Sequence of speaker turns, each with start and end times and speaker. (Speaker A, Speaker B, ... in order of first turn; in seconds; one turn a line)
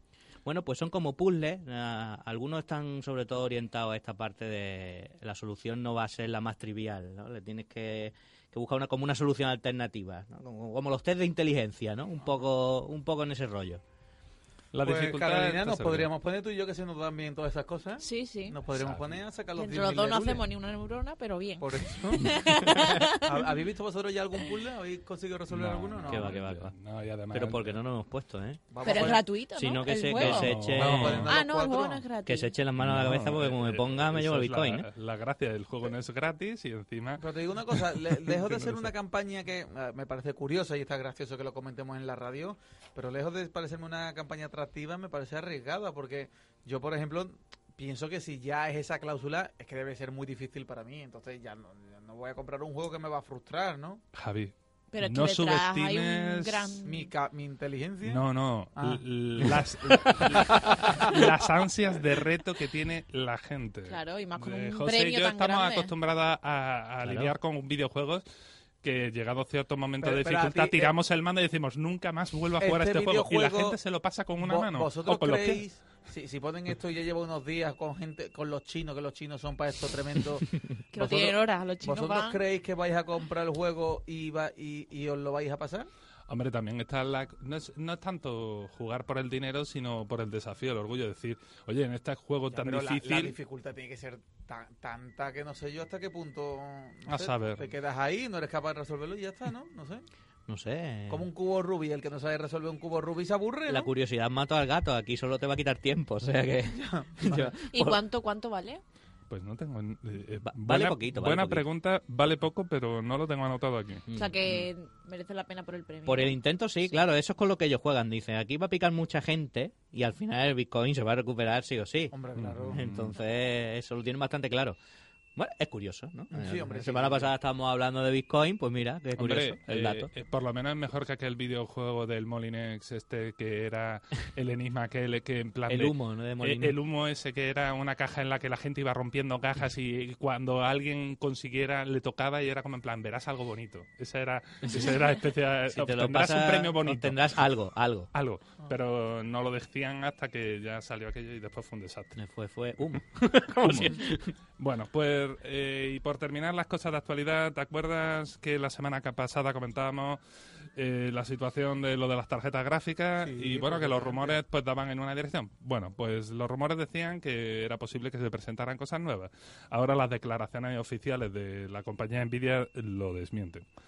Speaker A: 0.5-13.8
Speaker B: 14.7-16.1
Speaker C: 14.8-20.5
Speaker D: 18.0-18.6
Speaker B: 18.8-19.2
Speaker D: 19.6-23.4
Speaker C: 21.6-26.4
Speaker B: 25.5-27.8
Speaker A: 26.1-26.7
Speaker A: 27.3-31.3
Speaker C: 28.7-29.3
Speaker D: 28.8-30.6
Speaker B: 30.1-31.4
Speaker C: 30.8-32.0
Speaker D: 31.3-32.5
Speaker A: 32.2-34.9
Speaker B: 32.8-38.9
Speaker C: 37.2-54.0
Speaker B: 54.1-56.8
Speaker D: 54.9-57.1
Speaker C: 56.8-61.3
Speaker B: 58.0-68.2
Speaker D: 63.9-65.9
Speaker A: 67.0-67.3
Speaker B: 68.8-75.6
Speaker C: 70.0-70.9
Speaker C: 72.6-73.8
Speaker C: 74.4-85.9
Speaker D: 80.9-82.4
Speaker B: 86.3-93.4
Speaker C: 92.5-100.0
Speaker B: 97.1-97.7
Speaker A: 100.5-101.3
Speaker C: 101.1-103.9
Speaker A: 103.7-108.0
Speaker C: 106.7-107.5
Speaker D: 107.7-108.8
Speaker B: 109.3-114.0
Speaker A: 110.5-111.6
Speaker A: 114.1-114.7
Speaker D: 114.1-116.4
Speaker A: 116.0-122.1
Speaker C: 122.1-122.9
Speaker B: 122.4-123.2
Speaker A: 122.7-124.8
Speaker A: 125.4-130.1
Speaker C: 126.3-127.3
Speaker B: 129.2-147.2
Speaker A: 135.7-136.7
Speaker A: 145.7-148.1
Speaker B: 148.1-152.2
Speaker A: 152.2-154.3
Speaker B: 153.6-154.0
Speaker B: 154.6-173.7
Speaker C: 163.2-164.4